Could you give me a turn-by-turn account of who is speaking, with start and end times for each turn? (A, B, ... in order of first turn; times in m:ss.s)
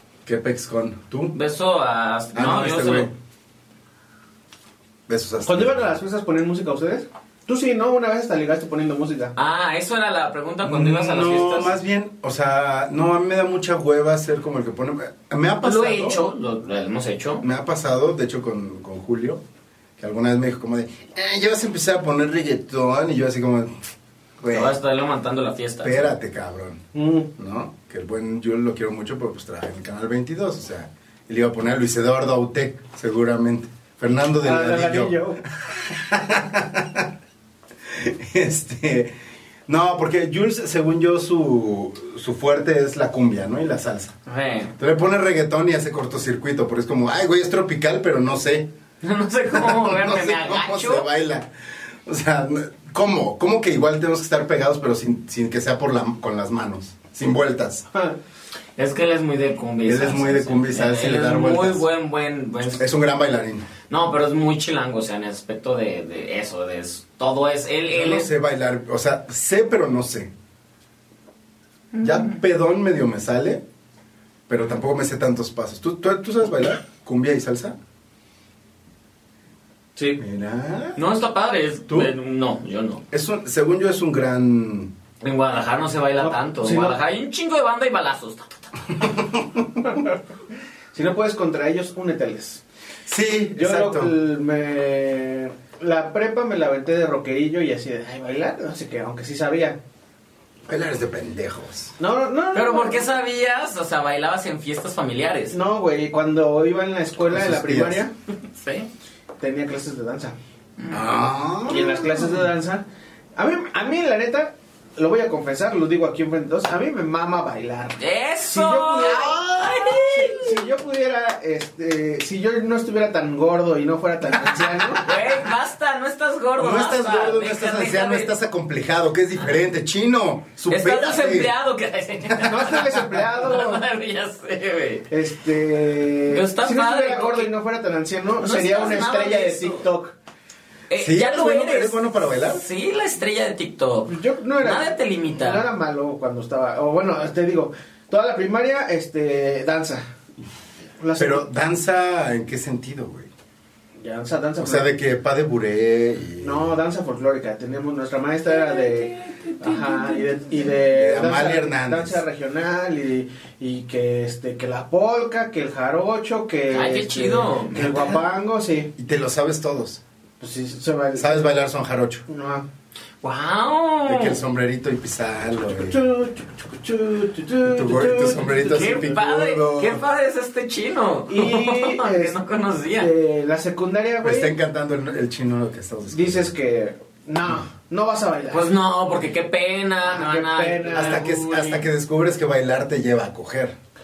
0:00.3-0:01.4 A
0:01.3-0:03.1 B
0:02.3-0:03.1 A
0:05.1-0:06.0 A
0:05.4-0:09.3 C
0:09.4-0:11.8 B
0:10.6-0:16.3 A
0:15.6-0:17.4 B
0:17.4-0:19.4 A
0:20.0-0:23.7 A
0:24.4-0:24.8 A
0:24.5-0:26.1 B
0:25.8-0:26.8 A
0:26.9-0:27.3 C
0:27.4-0:37.1 A
0:34.4-0:35.4 C
0:37.9-0:39.2 A
0:39.7-0:44.2 A
0:44.3-0:44.8 B
0:44.8-0:48.7 A
0:49.0-0:51.1 B
0:49.5-0:57.9 A
0:58.8-1:02.8 B
0:59.8-1:01.8 A
1:02.8-1:03.7 A
1:03.9-1:08.3 B
1:07.9-1:10.3 A
1:11.9-1:12.4 B
1:12.0-1:13.6 A
1:14.5-1:17.8 A
1:20.2-1:21.0 A
1:21.0-1:23.0 B
1:23.1-1:24.9 A
1:25.2-1:28.7 B
1:26.2-1:27.0 C
1:29.1-1:29.6 A
1:29.8-1:30.1 C
1:30.9-1:32.6 C
1:33.1-1:34.1 A
1:33.6-1:39.8 C
1:40.7-1:42.0 A
1:42.0-1:43.1 C
1:42.5-1:45.6 B
1:45.5-1:48.1 C
1:47.3-1:48.0 A
1:48.4-1:48.9 B
1:49.4-1:50.4 C
1:50.9-1:52.4 A
1:51.7-1:52.8 C
1:53.4-1:59.4 C
1:58.0-2:00.6 B
1:59.0-2:00.0 A
2:00.0-2:05.1 C
2:04.9-2:08.3 B
2:06.6-2:11.5 A
2:10.7-2:15.1 B
2:12.4-2:13.8 C
2:15.1-2:20.2 C
2:16.3-2:17.5 B
2:18.4-2:19.9 B
2:20.9-2:25.7 B
2:21.0-2:22.6 A
2:24.1-2:30.0 C
2:31.0-2:31.5 C
2:31.2-2:33.3 A
2:34.0-2:34.9 C
2:34.6-2:36.7 A
2:36.4-2:48.9 C
2:38.5-2:40.7 B
2:40.9-2:42.2 A
2:46.7-2:48.2 B
2:49.0-2:50.0 A
2:50.4-2:51.5 C
2:51.2-2:52.2 A
2:52.3-2:52.7 C
2:53.2-2:54.4 B
2:54.0-2:56.0 A
2:55.8-2:59.1 C
2:57.6-3:00.0 A
2:58.7-3:03.1 B
3:01.3-3:02.4 C
3:03.0-3:04.5 C
3:04.2-3:06.5 A
3:06.1-3:08.7 C
3:08.5-3:11.9 B
3:10.0-3:11.2 C
3:10.9-3:13.8 A